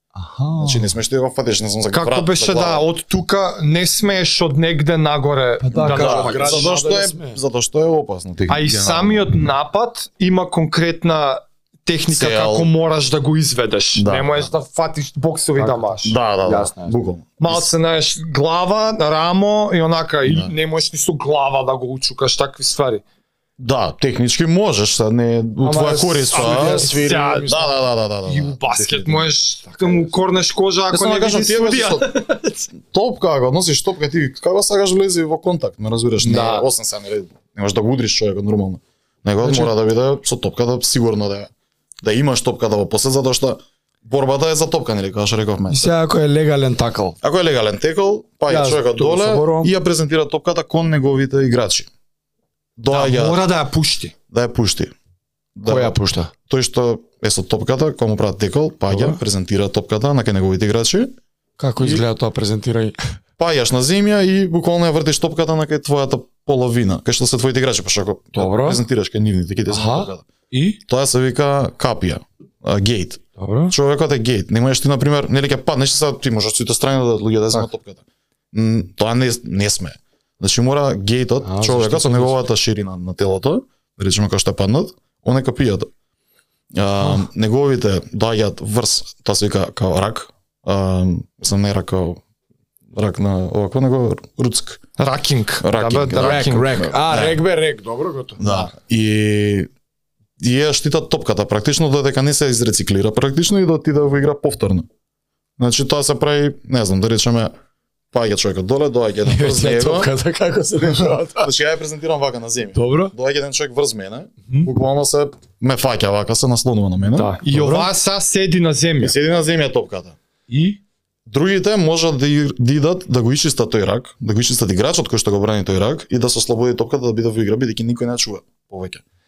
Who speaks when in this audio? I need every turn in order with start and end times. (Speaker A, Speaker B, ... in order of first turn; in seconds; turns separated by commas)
Speaker A: 0.1-0.9, Speaker B: 0.6-2.9, Speaker C: 1.9-6.7, Speaker A: 5.6-7.4, Speaker B: 5.9-9.3, Speaker C: 8.5-16.1, Speaker B: 12.1-12.7, Speaker B: 14.0-14.5, Speaker A: 15.6-16.9, Speaker B: 16.0-17.7, Speaker C: 17.4-23.0, Speaker B: 20.3-20.5, Speaker B: 23.6-26.9, Speaker A: 25.6-27.8, Speaker C: 26.3-27.6, Speaker B: 27.5-29.3, Speaker C: 28.2-32.7, Speaker A: 29.7-30.1, Speaker B: 30.9-32.2, Speaker B: 32.7-41.5, Speaker C: 36.2-36.7, Speaker A: 39.4-39.7, Speaker B: 42.0-45.9, Speaker A: 45.7-47.2, Speaker B: 47.2-51.9, Speaker A: 48.5-49.7, Speaker B: 52.8-53.4, Speaker C: 52.9-54.1, Speaker B: 54.3-54.9, Speaker B: 55.6-61.1, Speaker A: 55.6-56.3, Speaker A: 58.9-59.2, Speaker A: 61.6-63.0, Speaker B: 63.4-70.2, Speaker A: 68.3-68.8, Speaker A: 69.7-70.8, Speaker B: 70.9-85.9, Speaker A: 73.4-73.7, Speaker A: 81.4-82.5, Speaker B: 86.7-92.2, Speaker B: 92.9-94.8, Speaker C: 95.0-96.9, Speaker B: 95.6-97.4, Speaker A: 96.2-98.7, Speaker B: 98.4-99.7, Speaker B: 100.4-104.9, Speaker B: 105.6-107.5, Speaker B: 108.1-110.1, Speaker A: 109.2-111.5, Speaker B: 110.8-117.4, Speaker A: 112.8-113.1, Speaker C: 117.2-119.2, Speaker A: 117.5-117.9, Speaker B: 119.0-120.2, Speaker A: 120.5-120.8, Speaker B: 121.3-129.0